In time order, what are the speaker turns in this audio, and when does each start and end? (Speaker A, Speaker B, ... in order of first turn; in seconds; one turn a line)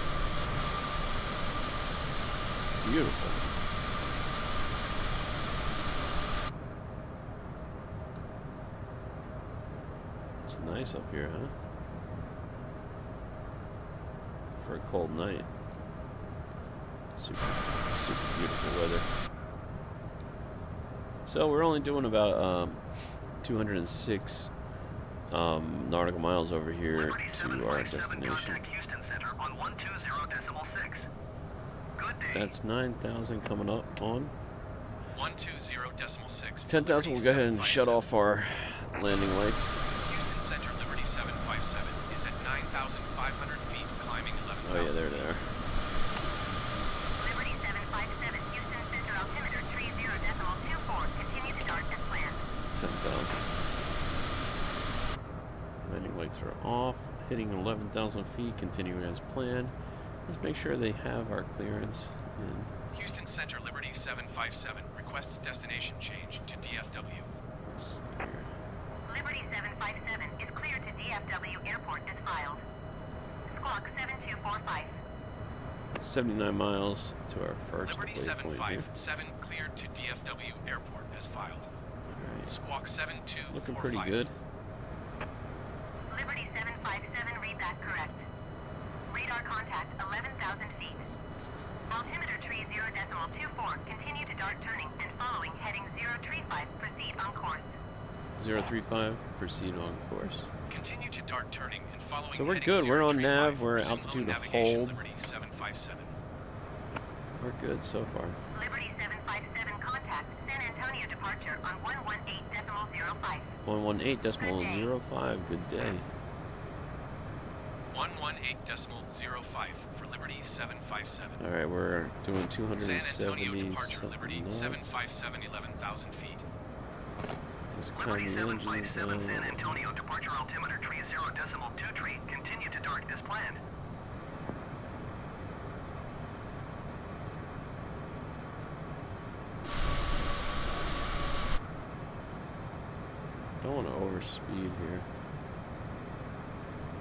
Speaker A: 2.8-3.5
Speaker A: 10.4-11.5
Speaker A: 14.6-15.5
Speaker A: 17.1-19.1
Speaker A: 21.2-24.5
Speaker A: 25.3-28.6
Speaker B: 26.9-31.1
Speaker B: 31.9-32.5
Speaker A: 32.3-34.3
Speaker C: 35.1-38.0
Speaker A: 36.6-39.8
Speaker C: 40.0-45.3
Speaker A: 44.6-45.5
Speaker D: 47.2-52.4
Speaker A: 52.7-53.5
Speaker A: 55.8-59.7
Speaker A: 60.2-62.7
Speaker C: 62.9-67.3
Speaker A: 67.7-68.5
Speaker D: 69.1-72.6
Speaker D: 73.5-74.9
Speaker A: 76.0-78.9
Speaker C: 77.8-81.7
Speaker A: 82.1-82.5
Speaker C: 82.5-84.3
Speaker A: 83.5-84.3
Speaker D: 86.1-88.2
Speaker D: 89.1-91.0
Speaker D: 91.9-97.7
Speaker A: 98.4-100.5
Speaker C: 100.7-106.1
Speaker A: 102.3-105.0
Speaker A: 107.4-108.4
Speaker D: 108.5-113.5
Speaker A: 113.6-116.0
Speaker D: 114.4-114.9
Speaker C: 117.9-121.4
Speaker A: 121.4-125.0
Speaker C: 122.8-126.4
Speaker A: 127.7-129.9
Speaker B: 127.9-133.6
Speaker A: 143.6-145.1